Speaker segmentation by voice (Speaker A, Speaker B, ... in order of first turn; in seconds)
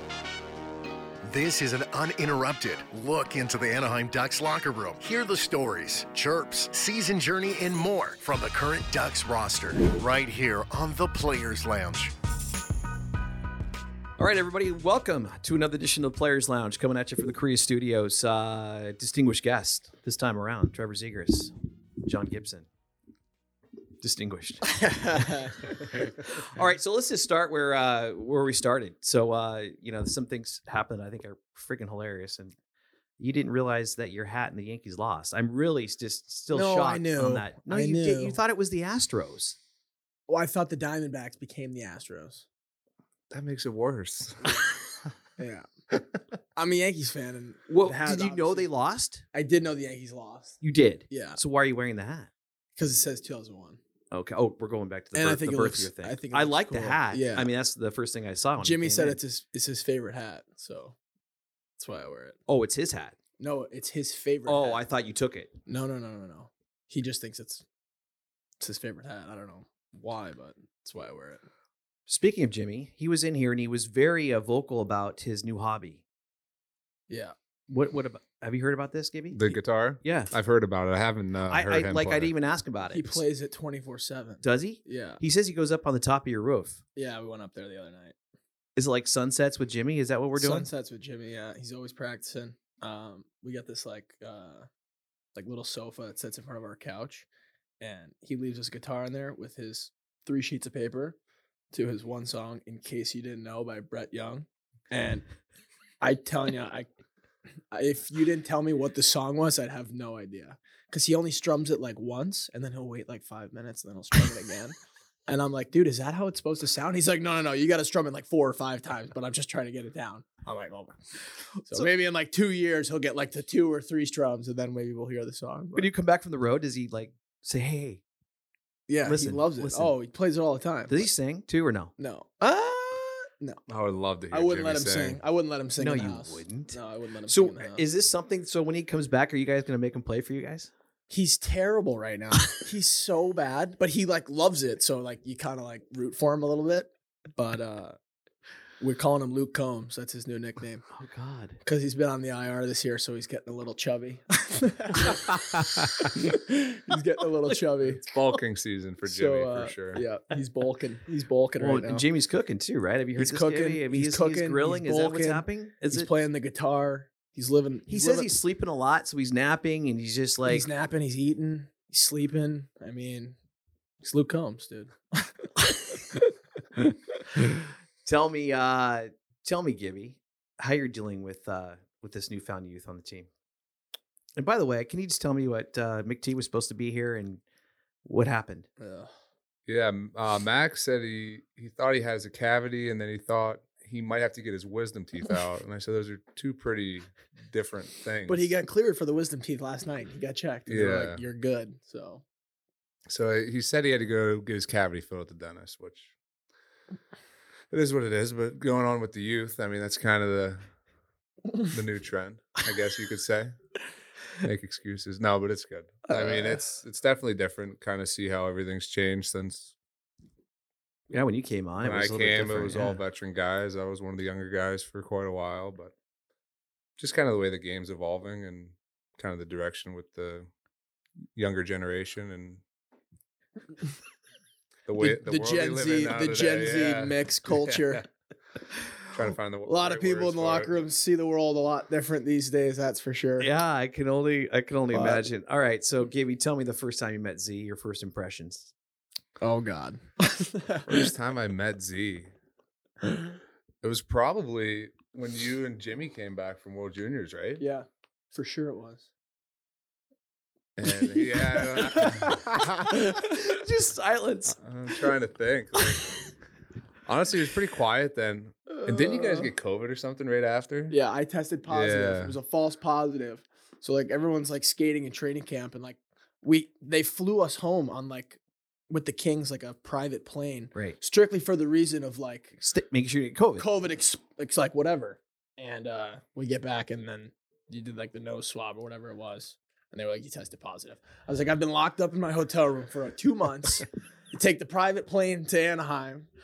Speaker A: 1.2-12.1
Speaker B: 14.2-22.7, 24.0-25.2, 25.9-32.5, 33.2-39.6, 47.7-49.2, 50.6-52.3, 54.1-59.2, 62.5-63.1, 64.5-65.5, 72.1-76.0, 77.7-80.3, 81.5-83.2, 84.4-86.8, 88.8-90.7, 125.7-128.0, 129.0-129.9, 130.9-131.9, 135.8-140.7, 150.9-151.6, 161.6-166.1, 167.9-170.7, 178.0-183.3, 184.4-187.4, 188.0-188.7, 221.1-223.0, 243.4-248.7, 263.1-264.6, 282.6-283.6
Speaker C: 24.6-25.7, 36.5-38.4, 40.3-42.5, 45.4-45.7, 46.5-48.7, 49.3-50.6, 51.1-51.4, 52.8-53.8, 55.1-57.5, 58.6-61.0, 61.8-62.4, 63.4-64.8, 65.7-67.6, 68.6-71.4, 77.1-77.3, 82.9-85.2, 87.0-88.2, 90.3-94.7, 95.3-97.3, 97.8-101.2, 101.7-105.2, 106.0-106.9, 107.7-114.7, 115.3-121.0, 121.6-125.9, 128.9-131.1, 132.0-133.6, 134.3-137.8, 141.1-148.0, 148.8-150.8, 151.6-158.0, 159.0-162.0, 163.2-168.3, 170.5-173.3, 174.0-176.9, 188.8-189.1, 198.3-202.2, 216.1-216.6, 235.0-238.1, 239.7-243.5, 244.9-245.2, 249.4-251.1, 257.6-259.1, 260.9-263.5, 268.7-269.5, 270.9-278.4, 278.9-282.6, 283.6-296.3
Speaker D: 43.3-45.1, 79.3-82.3, 133.7-135.2, 155.5-155.8, 158.0-160.0, 189.7-198.5, 200.7-201.2, 203.1-206.1, 207.7-210.7, 211.7-213.5, 214.4-219.7, 221.8-225.9, 227.0-230.5, 231.3-232.6, 234.8-238.0, 239.1-240.7, 250.9-252.3, 253.8-257.6, 260.8-262.9, 264.6-266.1, 267.1-270.9, 271.7-272.3